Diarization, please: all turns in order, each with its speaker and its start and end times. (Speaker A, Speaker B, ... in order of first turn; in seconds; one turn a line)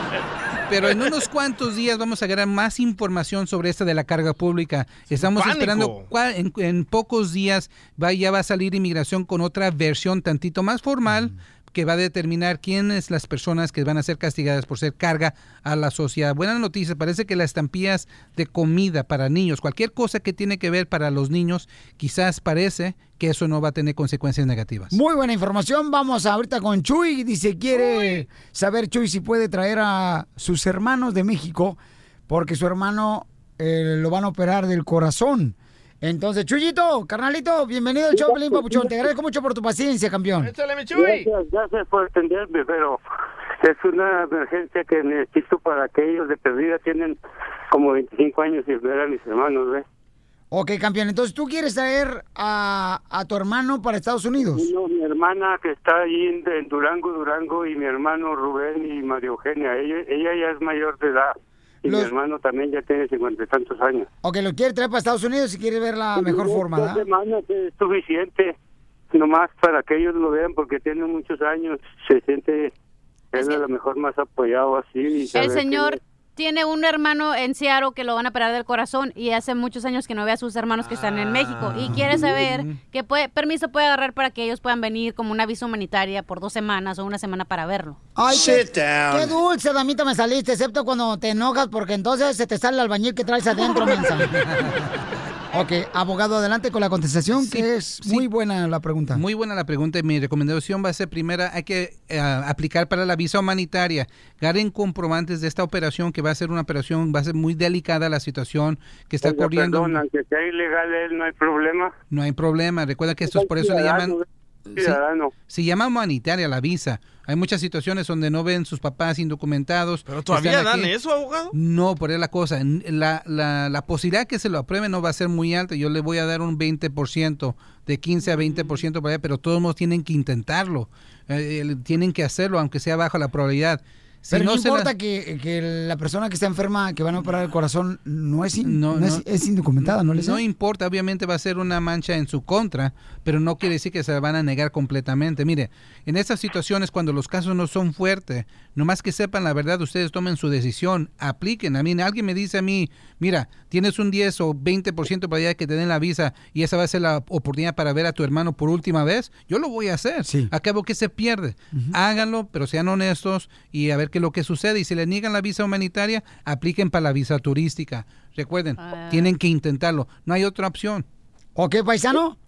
Speaker A: 0.7-24.9
Speaker B: 5.1-6.1
Speaker C: 24.9-31.8
Speaker C: 32.3-40.5
Speaker D: 38.1-39.1
Speaker B: 40.4-41.3
Speaker D: 40.9-43.0
Speaker D: 43.6-47.2
Speaker D: 47.7-49.9
Speaker C: 50.5-54.7
Speaker D: 54.5-64.1
Speaker C: 61.9-62.1
Speaker C: 64.2-67.1
Speaker D: 66.1-68.6
Speaker D: 69.1-72.7
Speaker D: 73.3-76.0
Speaker E: 73.3-73.6
Speaker E: 75.3-88.0
Speaker B: 81.0-81.6
Speaker A: 81.8-82.8
Speaker C: 88.2-94.4
Speaker A: 94.4-94.7
Speaker C: 95.5-99.2
Speaker A: 97.4-98.2
Speaker A: 99.1-110.0
Speaker D: 109.2-111.9
Speaker A: 112.1-114.2
Speaker D: 113.2-114.2
Speaker D: 114.8-115.3
Speaker A: 115.5-120.9
Speaker B: 120.1-121.5
Speaker A: 121.5-134.9
Speaker C: 134.3-140.4
Speaker A: 138.6-139.2
Speaker A: 139.8-171.1
Speaker C: 160.2-160.5
Speaker E: 168.8-169.3
Speaker C: 171.6-172.4